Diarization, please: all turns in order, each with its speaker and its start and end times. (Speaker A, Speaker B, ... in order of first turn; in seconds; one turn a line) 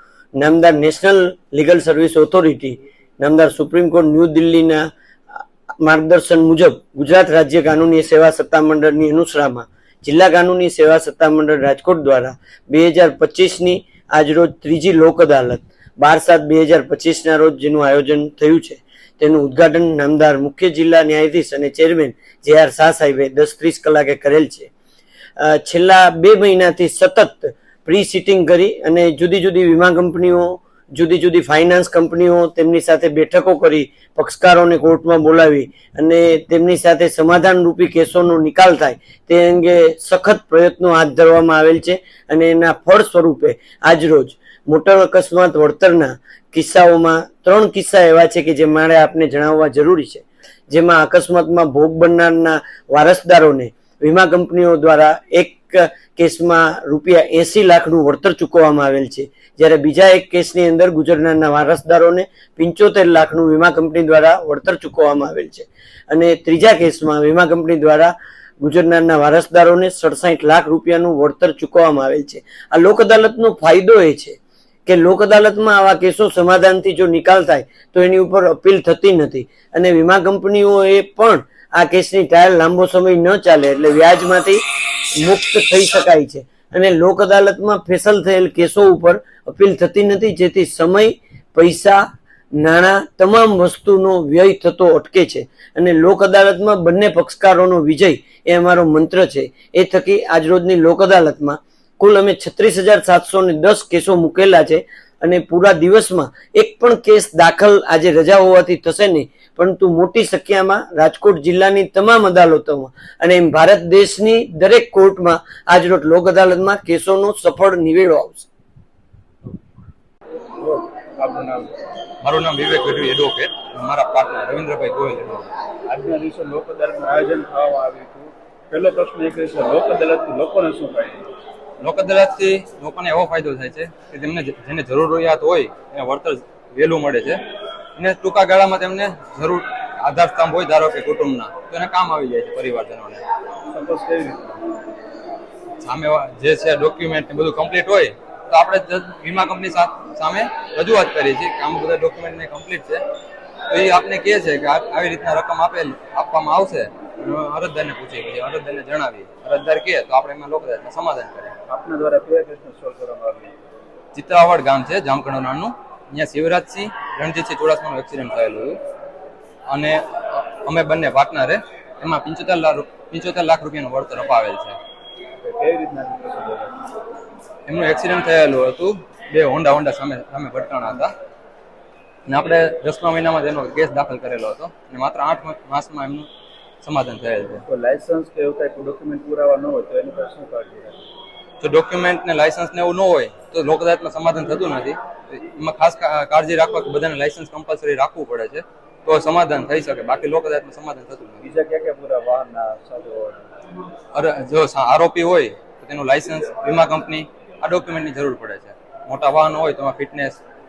Speaker A: 0.4-4.8
Speaker A: 5.8-24.7
Speaker A: 25.4-84.6
Speaker A: 85.2-92.0
Speaker A: 92.5-118.5
Speaker B: 120.6-121.7
Speaker C: 122.2-125.5
Speaker B: 125.9-131.3
Speaker C: 131.8-137.4
Speaker C: 138.0-143.2
Speaker B: 143.7-144.6
Speaker C: 145.8-153.0
Speaker C: 153.7-161.5
Speaker B: 161.7-163.5
Speaker C: 164.1-168.8
Speaker C: 169.7-174.8
Speaker B: 175.4-176.8
Speaker C: 177.7-181.1
Speaker C: 182.3-186.3
Speaker C: 186.8-187.7
Speaker B: 187.7-191.1
Speaker C: 191.6-201.4
Speaker B: 201.4-203.4
Speaker C: 204.1-210.4